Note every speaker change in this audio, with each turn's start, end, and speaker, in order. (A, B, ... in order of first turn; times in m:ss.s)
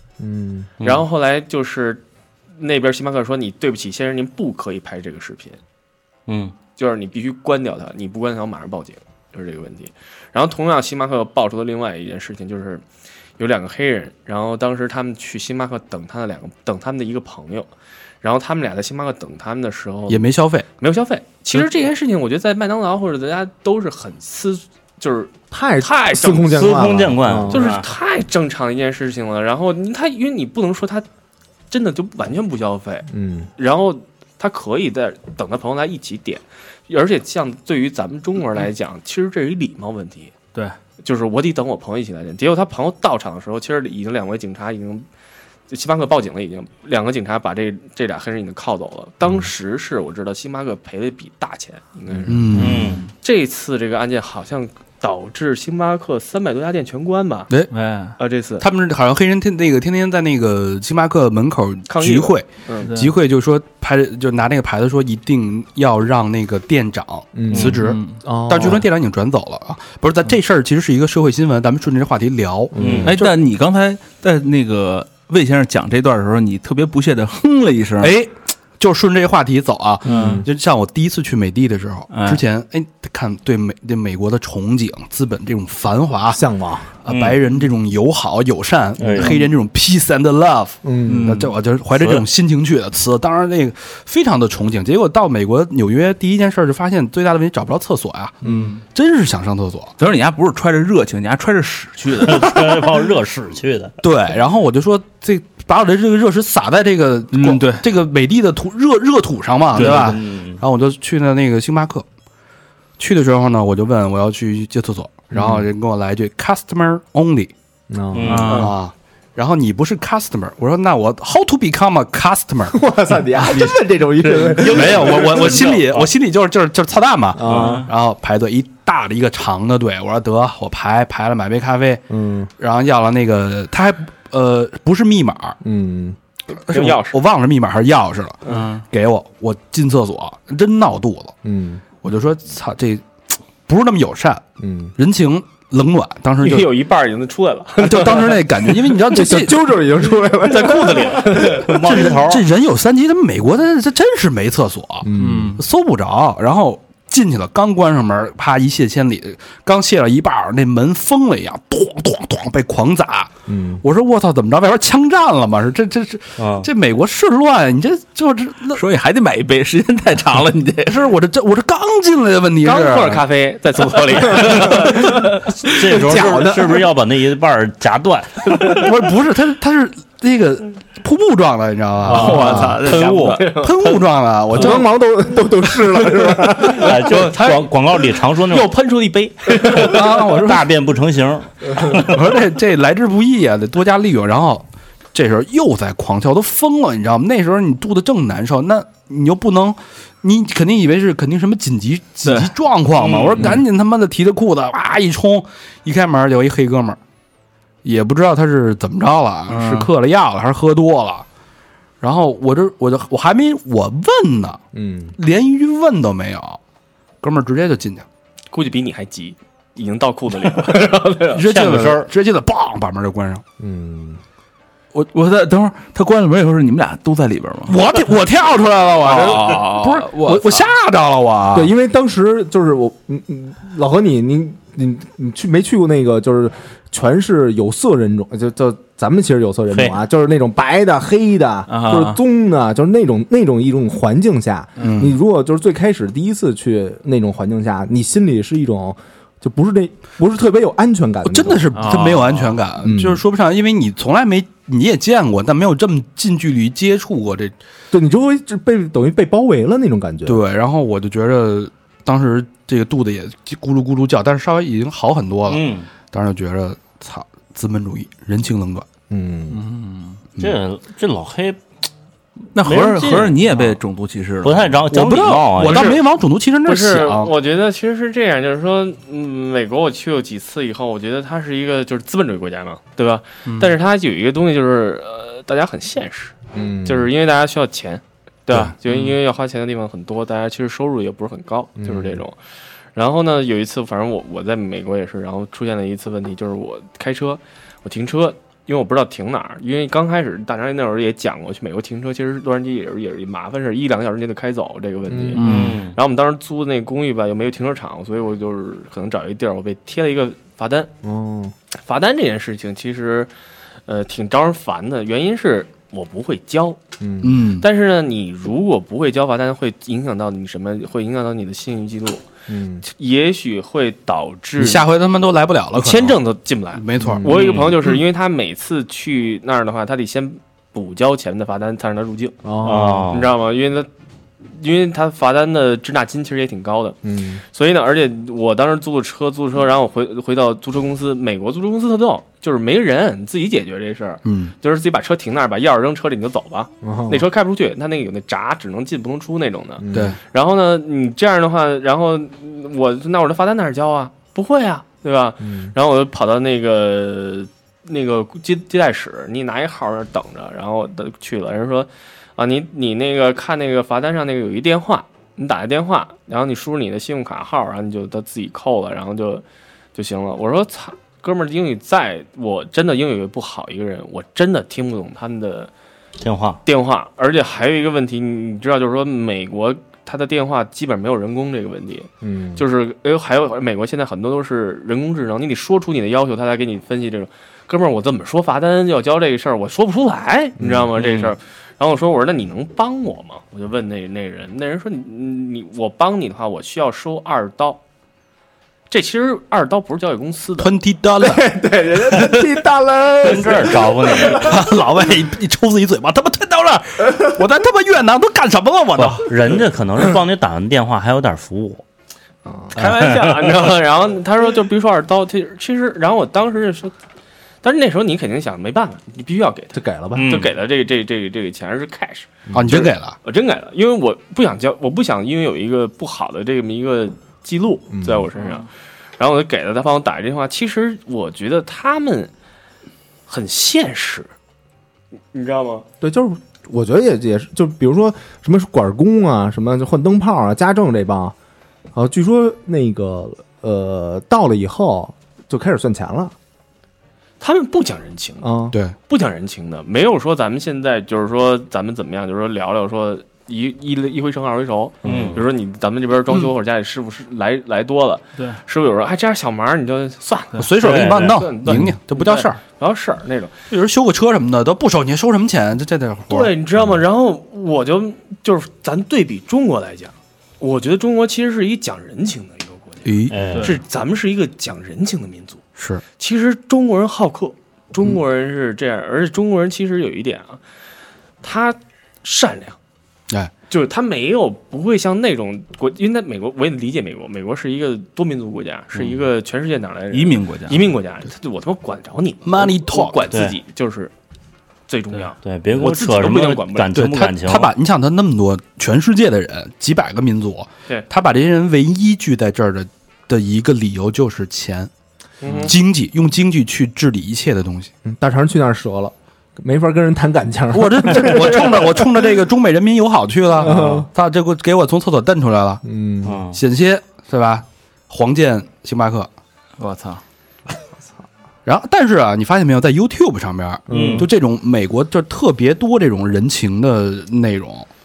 0:00.2-0:00.7 A
0:00.8-0:02.0 B
0:02.6-0:05.6 B
0:06.3-0:06.5 C
0:06.8-0:12.8 B
0:13.4-0:17.7 B
0:18.2-0:26.7 B
0:20.1-0:20.7 D
0:25.5-0:27.8 A
0:26.5-0:27.9 C
0:27.5-0:31.0 B
0:31.7-0:40.3 B
0:33.1-0:33.5 A
0:41.0-0:45.1 B
0:45.7-0:52.4 B
0:52.3-0:53.0 D
0:52.6-0:53.0 C
0:52.6-0:53.1 E
0:53.2-0:57.5 B
0:57.7-0:58.2 E
0:58.2-0:58.7 B
0:58.6-1:13.3 D
1:01.9-1:02.9 B
1:02.8-1:03.2 E
1:07.4-1:08.9 A
1:07.5-1:07.8 C
1:07.7-1:08.3 E
1:12.7-1:13.2 A
1:12.8-1:13.1 C
1:13.0-1:18.1 E
1:18.0-1:26.4 D
1:20.0-1:20.5 A
1:20.1-1:20.4 E
1:22.1-1:22.4 E
1:26.3-1:26.9 A
1:27.0-1:40.0 D
1:27.1-1:27.4 C
1:29.0-1:29.4 A
1:29.0-1:29.4 C
1:30.8-1:31.5 A
1:31.0-1:31.5 E
1:32.0-1:32.3 C
1:38.4-1:38.8 A
1:38.4-1:38.8 E
1:40.0-1:43.0 E
1:42.2-1:44.0 C
1:44.0-1:52.1 D
1:47.3-1:47.8 E
1:49.7-1:50.2 E
1:49.7-1:50.6 C
1:53.0-1:57.5 D
1:55.3-1:55.6 A
1:57.9-1:58.6 A
1:58.1-1:58.6 C
1:58.2-1:58.7 E
1:58.3-2:02.8 D
2:02.7-2:05.4 A
2:03.3-2:12.0 D
2:04.6-2:06.1 C
2:07.3-2:07.9 A
2:07.4-2:07.9 C
2:12.1-2:12.5 A
2:12.6-2:15.6 D
2:15.6-2:16.2 A
2:16.5-2:17.2 B
2:16.7-2:21.4 D
2:18.4-2:18.7 B
2:18.5-2:18.8 E
2:21.4-2:21.8 A
2:22.0-2:23.0 D
2:23.7-2:24.4 D
2:24.6-2:24.9 A
2:25.0-2:26.7 D
2:26.4-2:28.5 B
2:27.8-2:29.7 D
2:29.0-2:31.8 A
2:30.4-2:32.0 B
2:31.6-2:32.4 C
2:31.7-2:48.8 D
2:35.0-2:35.6 A
2:35.2-2:35.6 E
2:43.5-2:43.8 A
2:46.4-2:46.7 C
2:48.7-2:51.1 E
2:50.8-2:53.2 D
2:52.6-2:55.5 B
2:54.2-2:54.7 D
2:54.4-2:54.8 A
2:55.6-2:58.9 C
2:55.7-2:56.8 A
2:58.5-3:02.8 D
3:02.1-3:03.5 E
3:02.1-3:04.0 B
3:02.1-3:02.4 A
3:02.2-3:03.4 C
3:03.5-3:04.9 D
3:04.5-3:07.2 A
3:06.6-3:07.7 B
3:06.7-3:08.7 C
3:08.3-3:10.0 B
3:09.7-3:10.7 D
3:09.7-3:12.1 C
3:11.8-3:27.0 D
3:22.2-3:23.6 E
3:27.8-3:31.3 D
3:29.5-3:29.9 E
3:32.0-3:34.6 D
3:34.7-3:35.2 A
3:35.2-3:36.6 D
3:37.2-3:38.1 D
3:38.5-3:41.4 B
3:41.3-3:43.4 D
3:41.4-3:42.1 C
3:43.6-3:44.2 A
3:45.1-3:47.8 E
3:47.7-3:51.7 D
3:48.9-3:50.7 E
3:51.5-4:12.0 A
4:01.7-4:02.2 E
4:04.8-4:05.1 E
4:04.8-4:05.2 D
4:11.2-4:17.6 D
4:11.7-4:12.6 E
4:12.8-4:13.2 A
4:17.9-4:20.4 A
4:20.3-4:28.9 D
4:25.5-4:25.9 C
4:29.1-4:29.6 A
4:29.5-4:30.2 E
4:30.4-4:31.6 C
4:32.5-4:34.8 E
4:32.6-4:33.6 C
4:34.4-4:36.0 C
4:34.9-4:37.3 D
4:35.7-4:36.0 B
4:36.6-4:52.4 B
4:43.5-4:43.7 E
4:46.5-4:47.1 A
4:48.9-4:49.2 E
4:51.8-4:52.2 A
4:53.0-5:10.9 B
5:05.1-5:05.4 A
5:05.4-5:05.8 E
5:05.4-5:06.0 C
5:11.0-5:11.5 A
5:11.7-5:13.3 B
5:13.9-5:16.8 B
5:17.0-5:17.4 A
5:17.2-5:17.7 D
5:17.6-5:22.2 B
5:22.5-5:22.8 A
5:22.8-5:24.9 B
5:24.6-5:26.2 D
5:25.7-5:32.4 B
5:26.8-5:27.4 D
5:27.0-5:27.3 A
5:27.4-5:27.8 C
5:32.4-5:33.2 A
5:32.6-5:33.3 C
5:33.1-5:33.9 B
5:34.5-6:09.4 B
5:37.0-5:37.4 A
5:44.2-5:44.5 D
5:46.8-5:47.3 A
5:49.8-5:50.2 A
5:49.9-5:50.2 D
5:55.4-5:55.7 A
6:10.0-6:15.7 B
6:16.2-6:16.6 C
6:16.6-6:37.8 B
6:22.2-6:22.6 A
6:30.6-6:30.9 A
6:31.0-6:31.3 E
6:38.9-6:40.7 B
6:40.6-6:41.5 D
6:41.2-6:44.7 A
6:42.0-6:42.6 D
6:43.2-6:44.6 C
6:44.2-6:49.6 D
6:49.0-6:51.8 C
6:52.5-6:52.8 A
6:52.7-6:56.9 B
6:52.8-6:53.6 C
6:57.6-7:12.3 B
6:59.7-7:00.3 A
7:00.1-7:00.5 C
7:02.5-7:02.8 A
7:02.5-7:03.2 D
7:07.9-7:08.3 A
7:08.4-7:08.7 E
7:13.3-7:14.3 B
7:15.3-7:15.9 B
7:16.0-7:21.4 A
7:21.9-7:26.4 A
7:27.4-7:28.5 B
7:28.4-7:28.8 A
7:29.1-7:43.5 B
7:35.0-7:35.4 C
7:35.0-7:35.4 A
7:40.6-7:42.6 D
7:40.8-7:41.5 C
7:41.7-7:41.9 A
7:43.7-7:46.5 D
7:46.3-7:55.6 B
7:53.0-7:53.4 D
7:53.3-7:53.8 C
7:53.5-7:53.8 E
7:55.8-7:56.0 D
7:56.2-8:00.6 B
8:01.4-8:02.8 B
8:03.7-8:14.1 B
8:10.1-8:10.9 E
8:12.4-8:13.3 D
8:13.3-8:13.6 C
8:14.9-8:17.0 B
8:15.4-8:17.7 C
8:16.9-8:24.9 D
8:25.4-8:25.8 B
8:25.6-8:27.9 D
8:28.0-8:32.3 A
8:30.7-8:35.8 D
8:33.6-8:34.1 A
8:35.8-8:36.4 A
8:36.2-8:36.6 C
8:36.5-8:39.3 D
8:39.8-8:40.2 E
8:41.6-8:47.9 D
8:43.9-8:44.3 A
8:43.9-8:44.3 C